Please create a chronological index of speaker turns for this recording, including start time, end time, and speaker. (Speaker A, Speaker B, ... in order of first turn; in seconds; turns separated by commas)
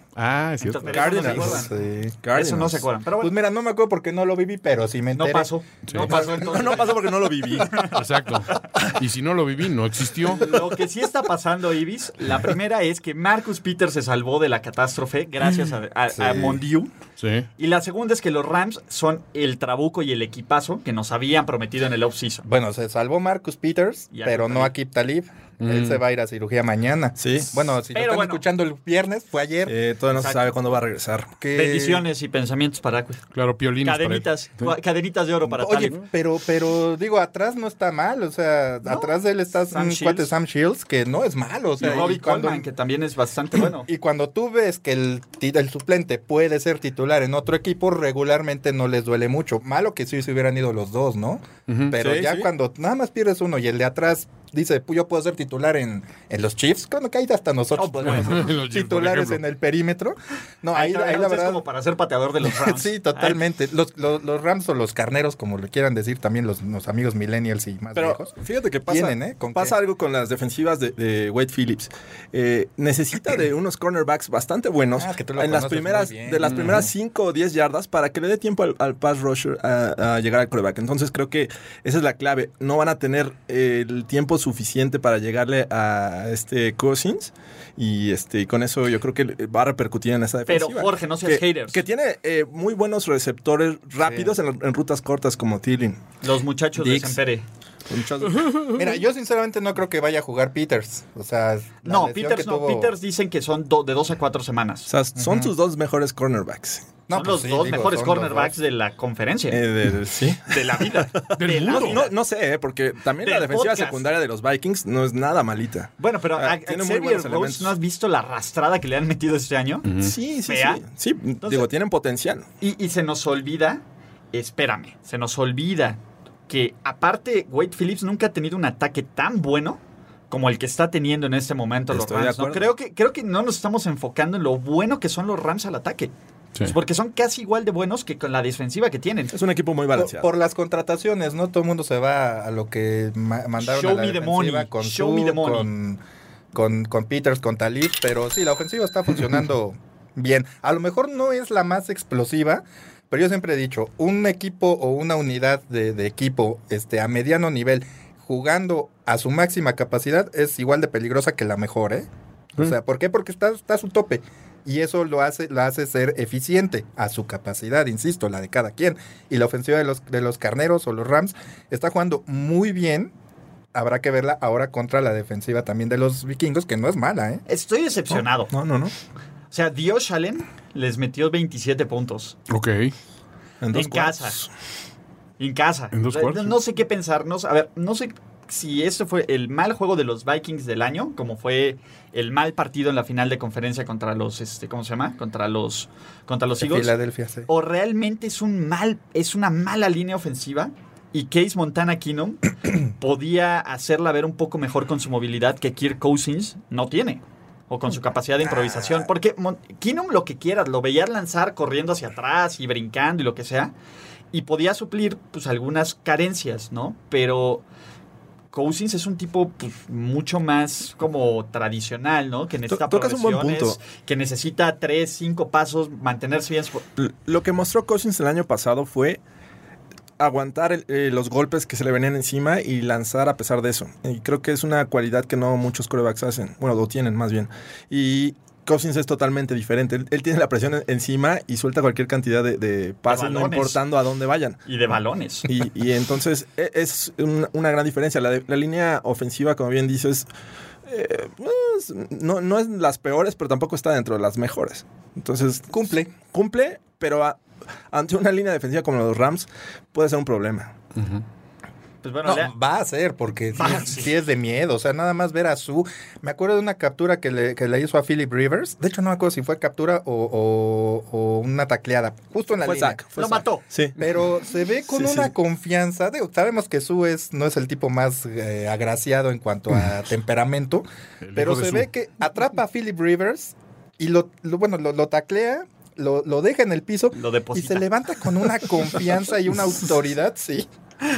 Speaker A: 0.1-1.2, Speaker B: 0.6-1.7, Speaker C: 0.9-1.7, Speaker D: 1.2-2.2, Speaker C: 2.2-2.9, Speaker B: 2.3-3.3, Speaker D: 3.2-5.5, Speaker B: 5.2-8.0, Speaker A: 5.9-6.1, Speaker C: 5.9-7.9, Speaker A: 7.8-10.6, Speaker B: 10.3-16.9, Speaker D: 16.1-16.6, Speaker A: 17.2-17.5, Speaker B: 17.6-22.5, Speaker D: 22.4-29.7, Speaker B: 24.1-24.7, Speaker A: 25.6-26.0, Speaker C: 27.2-27.6, Speaker B: 27.9-28.4, Speaker C: 29.6-31.3, Speaker B: 30.1-30.5, Speaker D: 31.4-32.0, Speaker B: 31.5-33.2, Speaker A: 33.3-34.7, Speaker B: 33.8-36.0, Speaker D: 35.5-42.6, Speaker B: 38.9-40.3, Speaker B: 41.8-43.9, Speaker C: 41.8-42.1, Speaker D: 43.9-61.6, Speaker A: 51.7-52.0, Speaker C: 52.0-52.5, Speaker B: 57.8-58.5, Speaker A: 58.0-59.4, Speaker B: 60.7-63.4, Speaker D: 62.4-69.8, Speaker C: 67.9-96.0, Speaker D: 75.0-76.8, Speaker A: 76.4-76.9, Speaker B: 90.5-91.8, Speaker D: 94.0-94.3, Speaker B: 96.2-97.4, Speaker D: 96.7-97.2, Speaker C: 97.9-98.7, Speaker A: 98.4-98.8, Speaker D: 98.7-102.9, Speaker B: 101.8-104.9, Speaker C: 104.8-106.9, Speaker D: 105.1-105.5, Speaker D: 107.1-108.5, Speaker B: 107.1-109.7, Speaker C: 109.5-117.7, Speaker B: 110.4-112.2, Speaker A: 111.4-112.0, Speaker B: 113.2-114.1, Speaker B: 116.0-119.9, Speaker A: 119.8-120.1, Speaker C: 120.0-122.5, Speaker B: 120.5-120.8, Speaker B: 121.4-121.7, Speaker B: 122.6-139.3, Speaker C: 131.9-132.7, Speaker C: 139.3-140.3, Speaker D: 139.9-146.0, Speaker B: 143.6-145.7, Speaker D: 146.5-173.1, Speaker D: 173.7-177.4, Speaker B: 177.5-178.5, Speaker C: 178.1-178.9, Speaker B: 179.5-182.3, Speaker A: 182.5-182.9, Speaker C: 183.6-184.5, Speaker B: 183.7-184.4, Speaker B: 185.4-196.9, Speaker A: 185.9-186.6, Speaker D: 196.6-197.5, Speaker B: 197.5-213.7, Speaker B: 214.3-217.6, Speaker B: 218.5-226.8, Speaker C: 222.7-223.8, Speaker C: 227.0-229.2, Speaker C: 230.2-244.6, Speaker B: 243.1-243.8, Speaker B: 244.7-245.5, Speaker C: 245.5-250.3, Speaker C: 250.8-260.7, Speaker D: 255.7-256.1, Speaker B: 262.0-262.5, Speaker D: 262.2-273.4, Speaker B: 263.5-264.1, Speaker C: 272.6-274.1, Speaker B: 273.1-273.6, Speaker D: 274.0-290.7, Speaker C: 274.9-275.3, Speaker A: 281.2-281.9, Speaker B: 287.1-287.9